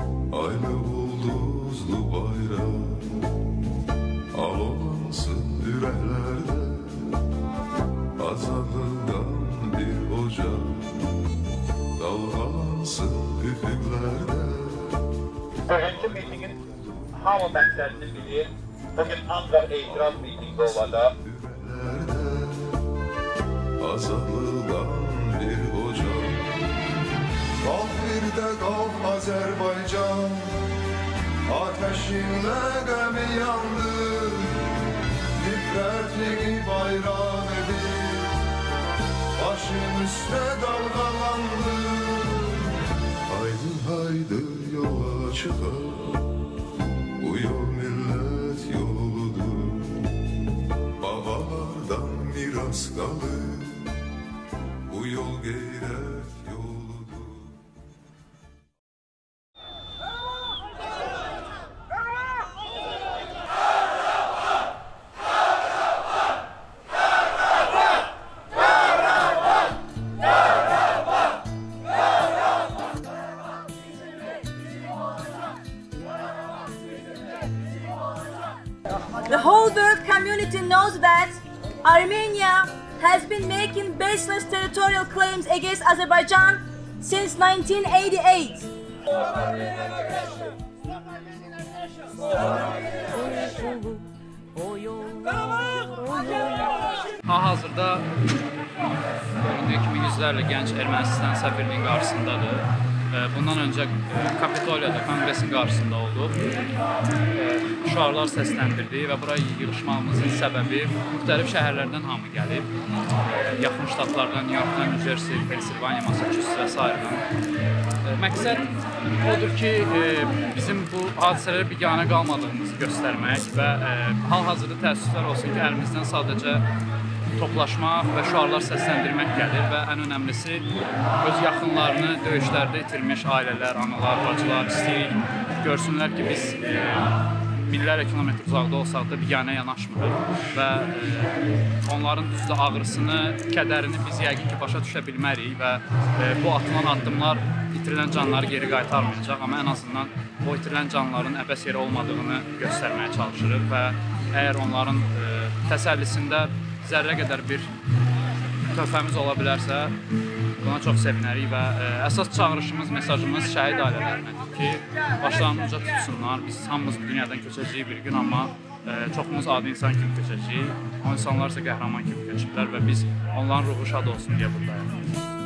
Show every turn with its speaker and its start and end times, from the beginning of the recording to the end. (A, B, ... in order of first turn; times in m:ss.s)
0:00.3-0:03.4 A
0:04.3-0:07.2 A
0:08.2-0:11.1 A
0:12.0-0:15.2 A
0:15.7-0:16.5 B
0:15.8-0:18.3 A
0:17.1-0:21.1 B
0:19.8-0:22.9 A
0:23.8-0:26.6 A
0:27.6-0:30.7 A
0:31.5-0:34.7 A
0:35.4-0:38.4 A
0:39.4-0:42.7 A
0:43.3-0:46.4 A
0:47.2-0:50.3 A
0:51.0-0:54.0 A
0:54.9-0:57.7 A
1:19.2-1:28.7 C
1:33.4-1:33.9 C
1:34.9-1:36.4 C
1:37.2-1:38.1 D
1:39.4-1:46.4 D
1:47.3-1:57.2 D
1:58.0-2:06.6 D
2:07.4-2:10.7 D
2:11.2-2:37.7 D
2:38.7-2:39.9 D
2:40.6-2:55.0 D